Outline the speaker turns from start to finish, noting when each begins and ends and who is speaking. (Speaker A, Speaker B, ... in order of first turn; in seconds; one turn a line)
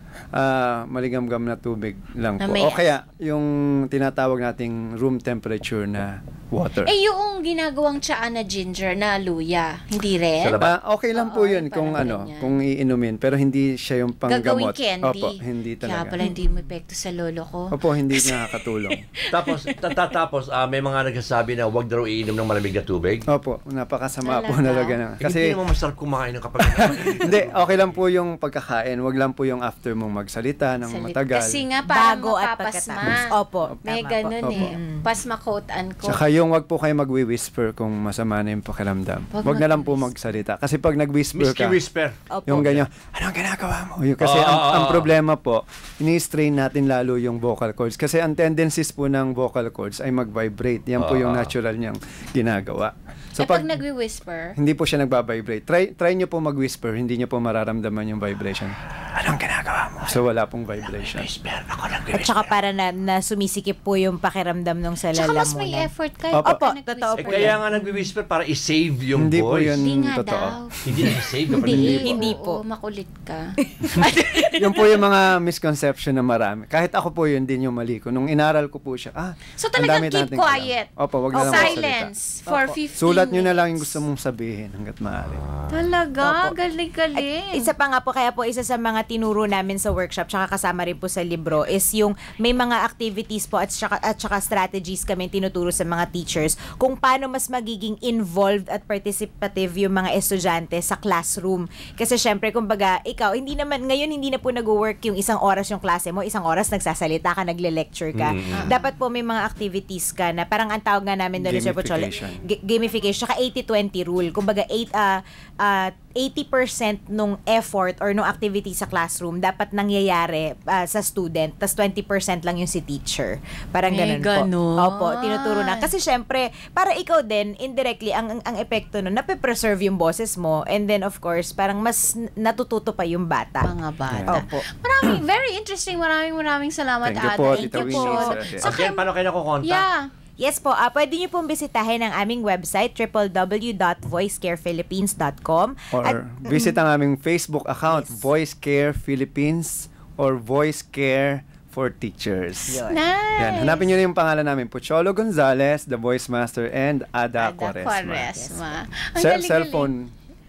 Speaker A: 0.3-6.9
Speaker B: 2.4-2.9
Speaker B: 6.8-10.6
Speaker C: 10.4-10.7
Speaker A: 10.6-16.1
Speaker B: 11.1-12.5
Speaker B: 14.3-19.9
Speaker A: 17.7-19.0
Speaker C: 19.3-23.2
Speaker A: 23.3-25.5
Speaker B: 24.2-25.0
Speaker C: 25.2-27.9
Speaker A: 26.8-31.6
Speaker B: 30.9-33.2
Speaker D: 31.9-35.0
Speaker B: 33.9-36.2
Speaker A: 34.4-34.7
Speaker A: 36.0-41.8
Speaker B: 39.3-40.1
Speaker C: 41.3-42.9
Speaker D: 42.3-42.6
Speaker A: 42.5-53.8
Speaker C: 44.2-45.1
Speaker C: 51.0-51.5
Speaker B: 53.4-54.6
Speaker A: 54.6-61.3
Speaker C: 61.0-62.5
Speaker D: 62.1-65.9
Speaker B: 65.1-67.6
Speaker A: 66.3-66.6
Speaker D: 66.4-67.6
Speaker C: 67.2-69.8
Speaker A: 69.2-71.1
Speaker B: 69.8-70.8
Speaker C: 70.8-72.2
Speaker B: 71.5-74.9
Speaker D: 71.6-72.6
Speaker A: 71.7-72.0
Speaker A: 74.6-82.1
Speaker B: 79.6-84.0
Speaker D: 81.4-81.8
Speaker D: 82.5-82.8
Speaker A: 83.0-85.4
Speaker C: 85.2-85.9
Speaker B: 85.7-87.7
Speaker D: 86.2-86.5
Speaker D: 87.1-133.7
Speaker C: 108.1-108.6
Speaker A: 111.4-112.4
Speaker B: 123.9-125.9
Speaker B: 133.6-139.1
Speaker A: 134.1-134.6
Speaker A: 137.0-138.7
Speaker D: 137.4-138.4
Speaker C: 138.6-139.8
Speaker B: 139.6-140.1
Speaker D: 140.4-146.8
Speaker A: 145.9-152.8
Speaker D: 147.9-148.2
Speaker D: 152.7-153.0
Speaker B: 152.9-153.9
Speaker A: 153.4-158.3
Speaker B: 157.4-159.9
Speaker D: 158.3-158.6
Speaker A: 159.2-160.1